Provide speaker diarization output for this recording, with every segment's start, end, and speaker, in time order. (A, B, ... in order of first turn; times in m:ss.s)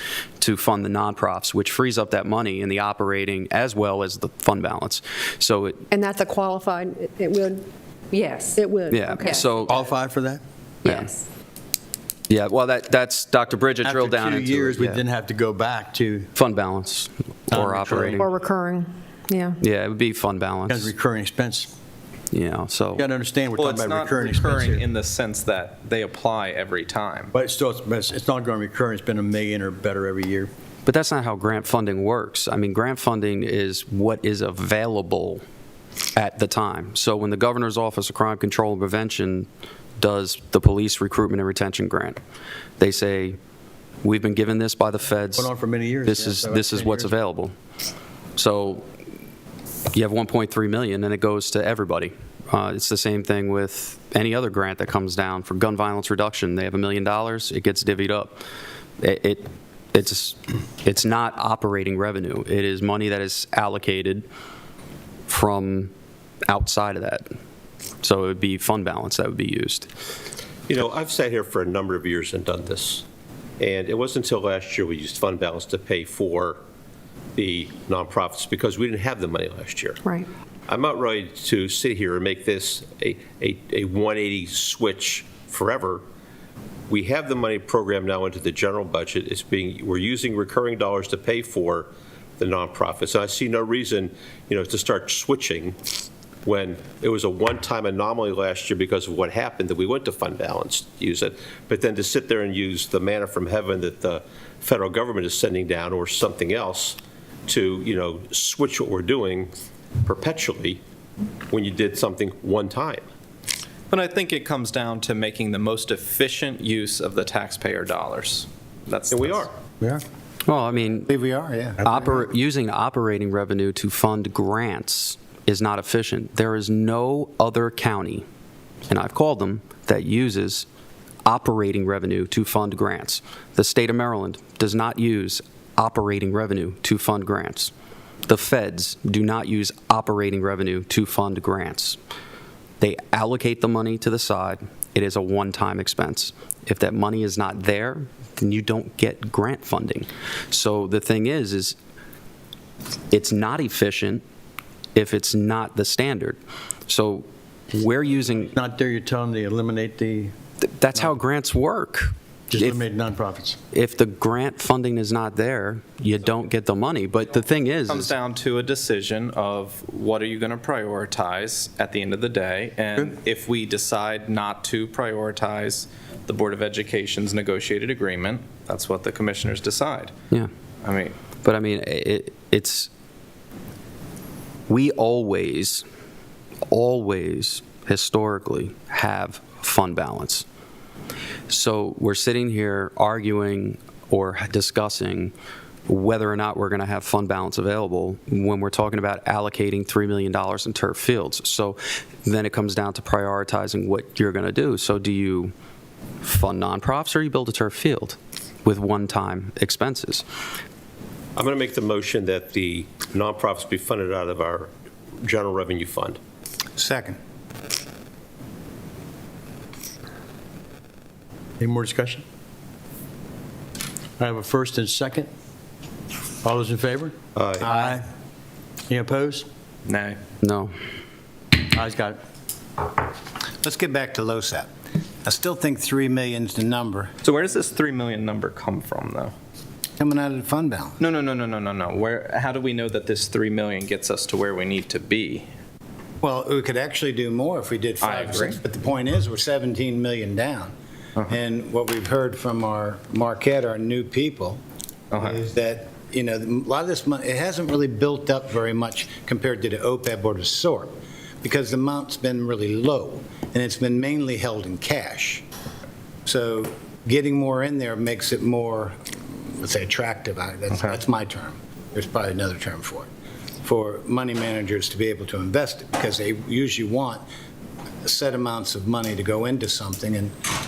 0:00.4-0:05.9 A
0:05.9-0:09.8 B
0:08.9-0:09.7 A
0:09.6-0:10.4 C
0:10.8-0:11.2 B
0:10.8-0:11.1 A
0:12.3-0:15.0 A
0:13.8-0:16.3 C
0:16.4-0:18.3 A
0:17.5-0:18.2 C
0:18.2-0:19.6 B
0:19.6-0:20.9 A
0:20.7-0:21.7 C
0:22.3-0:23.1 A
0:23.0-0:24.8 C
0:23.6-0:27.3 D
0:27.3-0:30.5 C
0:30.9-0:35.4 A
0:36.2-0:39.5 A
0:40.0-0:42.2 A
0:42.8-0:43.4 A
0:44.0-0:45.5 A
0:45.4-0:47.2 C
0:46.0-0:47.6 A
0:48.4-0:48.8 A
0:49.9-0:58.4 A
0:59.0-1:04.3 A
1:05.3-1:05.9 A
1:06.5-1:07.2 A
1:08.0-1:09.9 A
1:10.7-1:13.1 E
1:13.6-1:16.6 E
1:17.4-1:20.0 E
1:20.7-1:26.0 E
1:26.9-1:35.8 E
1:36.4-1:50.8 E
1:51.5-1:53.0 E
1:53.9-1:59.5 D
1:59.1-1:59.5 E
2:00.5-2:01.1 A
2:01.1-2:02.0 F
2:01.8-2:08.2 A
2:08.9-2:10.7 A
2:11.3-2:17.7 A
2:18.3-2:22.0 A
2:22.8-2:31.8 A
2:33.1-2:34.2 A
2:35.0-2:38.5 A
2:38.5-2:40.3 C
2:40.6-2:42.8 A
2:42.5-2:43.6 C
2:43.7-2:48.1 A
2:47.9-3:00.1 D
3:00.8-3:01.2 D
3:01.4-3:02.9 A
3:04.7-3:05.8 A
3:06.7-3:10.4 A
3:11.5-3:15.3 A
3:15.9-3:25.5 A
3:26.2-3:30.2 A
3:31.4-3:34.7 E
3:35.2-3:36.2 E
3:36.8-3:37.2 F
3:41.6-3:42.2 C
3:44.2-3:45.3 C
3:46.4-3:48.1 C
3:47.4-3:47.8 E
3:48.9-3:49.5 C
3:49.9-3:50.2 D
3:50.4-3:50.7 A
3:51.7-3:52.2 C
3:53.6-3:54.7 F
3:55.2-3:57.1 F
3:57.2-3:59.3 D
4:00.0-4:01.0 F
4:01.0-4:05.5 D
4:06.2-4:14.6 F
4:08.0-4:08.6 D
4:15.1-4:25.4 F
4:26.2-4:33.1 F
4:33.6-4:37.2 F
4:38.0-4:40.4 F